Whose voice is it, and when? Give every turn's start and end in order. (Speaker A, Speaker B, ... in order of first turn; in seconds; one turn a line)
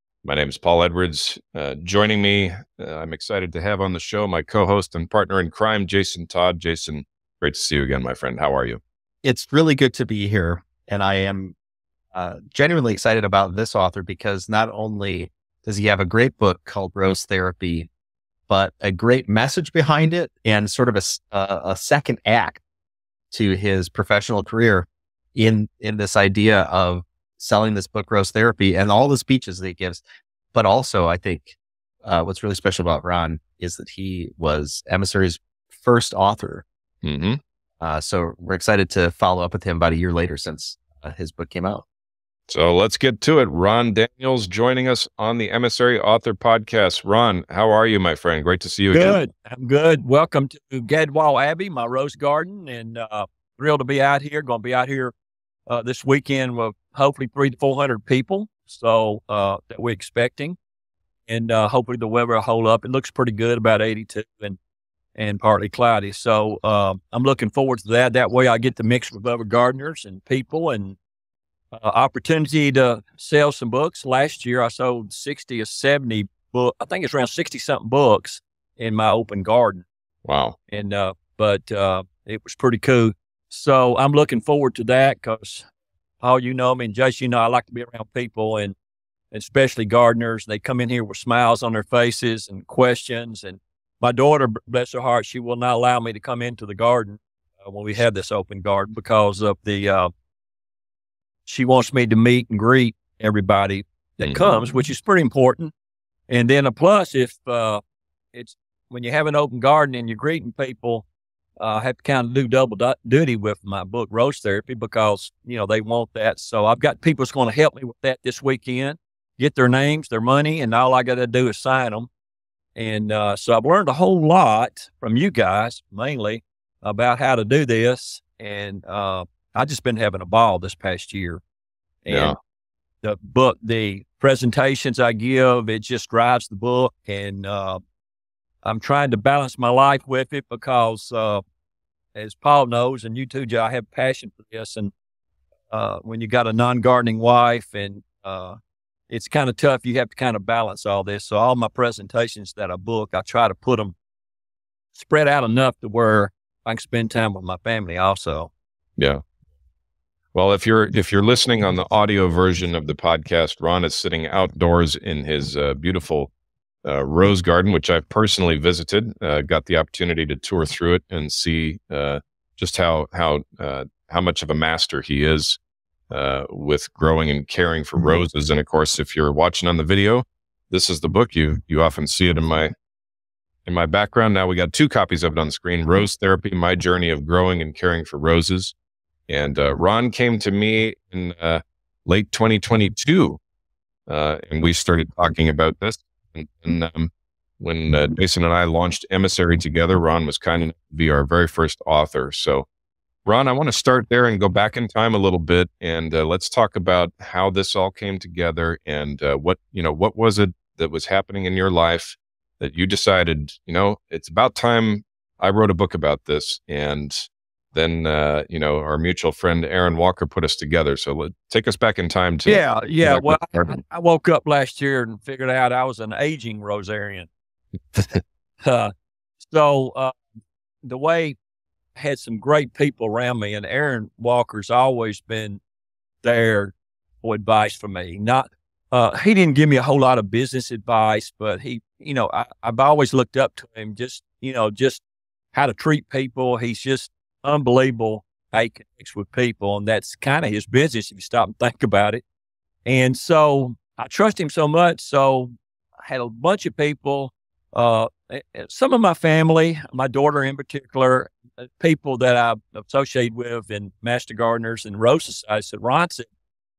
Speaker A: 0.2-8.8
Speaker B: 9.2-11.5
Speaker B: 12.1-17.9
Speaker B: 18.5-22.6
Speaker B: 23.3-30.0
Speaker B: 30.5-36.6
Speaker A: 37.0-37.4
Speaker B: 37.8-41.8
Speaker A: 42.5-49.2
Speaker C: 48.9-55.1
Speaker C: 55.7-60.6
Speaker C: 61.3-64.6
Speaker C: 65.2-71.0
Speaker C: 71.7-79.8
Speaker A: 80.2-80.5
Speaker C: 80.7-85.7
Speaker C: 86.2-88.8
Speaker C: 89.3-100.1
Speaker C: 101.5-105.7
Speaker C: 106.3-107.8
Speaker C: 108.3-111.0
Speaker C: 111.6-122.1
Speaker C: 122.8-131.4
Speaker C: 132.0-132.4
Speaker A: 132.1-132.3
Speaker C: 133.0-137.8
Speaker C: 138.6-141.4
Speaker C: 142.1-144.9
Speaker C: 145.7-148.6
Speaker C: 149.1-153.9
Speaker C: 154.9-158.5
Speaker A: 160.3-166.3
Speaker A: 166.8-175.6
Speaker A: 176.1-182.7
Speaker A: 183.7-188.7
Speaker A: 189.3-193.4
Speaker A: 194.1-202.7
Speaker A: 203.2-223.8
Speaker C: 222.4-227.3
Speaker C: 228.6-230.2
Speaker C: 230.8-231.3
Speaker C: 231.9-235.6
Speaker C: 236.2-245.0
Speaker C: 245.5-252.2
Speaker C: 252.8-266.3